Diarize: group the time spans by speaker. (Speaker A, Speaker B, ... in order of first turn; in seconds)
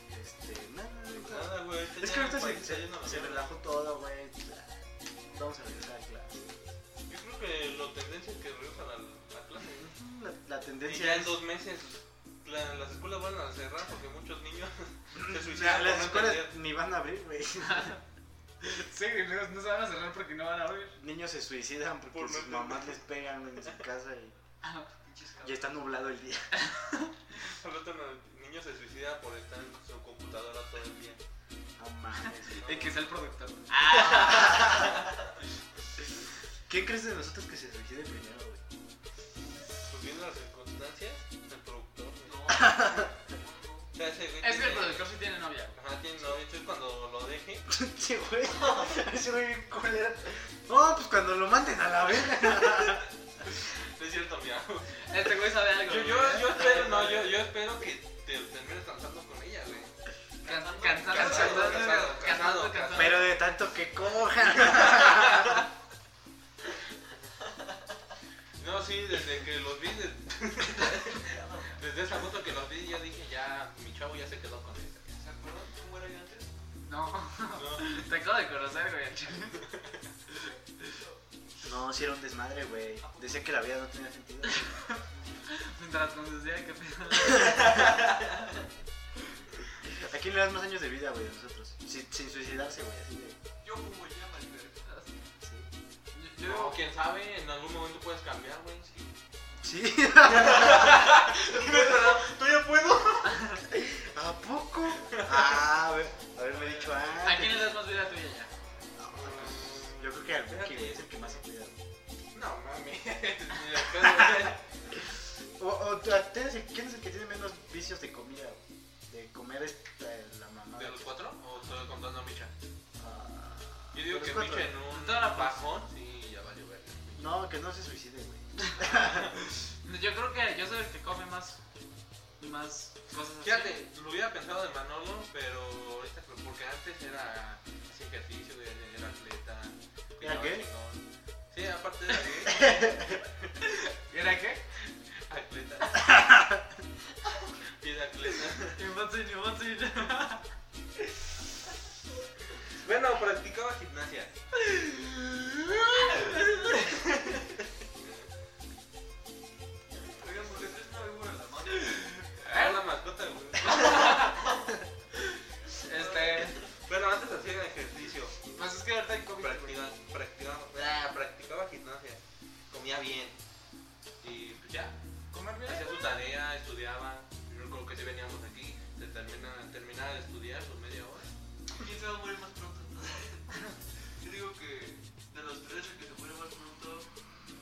Speaker A: 0.1-6.6, 9.8-11.4, 15.2-18.0, 21.0-24.4, 25.4-26.6, 31.8-32.9, 34.1-34.9, 36.7-38.6, 42.5-43.1, 47.7-53.1, 62.9-65.6, 81.6-84.8, 89.8-93.4, 95.4-95.7, 99.6-101.1, 103.7-107.8, 109.0-111.8, 114.2-114.5, 115.6-121.2, 123.0-124.8, 127.2-129.3, 140.2-140.7, 142.5-143.1
Speaker B: 1.1-3.5, 7.1-9.9, 10.8-16.5, 22.1-23.0, 27.4-31.2, 39.9-42.6, 43.9-45.1, 45.7-47.7, 53.5-59.9, 61.0-63.3, 64.6-65.6, 68.6-75.1, 77.5-78.0, 96.4-98.9, 100.2-103.6, 105.1-105.6, 109.1-111.4, 112.3-114.6, 120.8-122.5, 123.9-127.4, 128.9-129.3, 133.4-143.5, 145.3-146.1, 147.8-148.8, 152.7-154.3, 162.5-164.2, 166.6-168.3, 169.4-172.2, 172.7-173.4, 174.2-175.0, 175.7-181.3
Speaker C: 17.6-18.0, 18.6-21.0, 24.6-24.9, 26.6-27.1, 32.6-35.1, 44.4-45.8, 55.0-56.9, 60.4-63.3, 76.9-79.7, 85.5-88.0, 96.1-96.8, 107.2-108.5, 124.9-125.7, 129.8-131.6, 132.4-133.8, 143.6-144.7, 148.8-150.4, 154.6-156.8, 161.8-162.9, 163.6-164.5, 165.8-166.6, 168.6-169.8, 175.3-175.9
Speaker D: 25.0-25.8, 42.2-43.9, 48.6-48.9, 56.5-57.3, 60.4-62.5, 71.1-71.8, 75.1-76.5, 83.0-83.5, 93.6-94.9, 98.9-99.1, 101.5-102.2, 106.5-107.2, 160.2-162.1, 164.1-164.7, 165.9-166.6, 181.7-187.1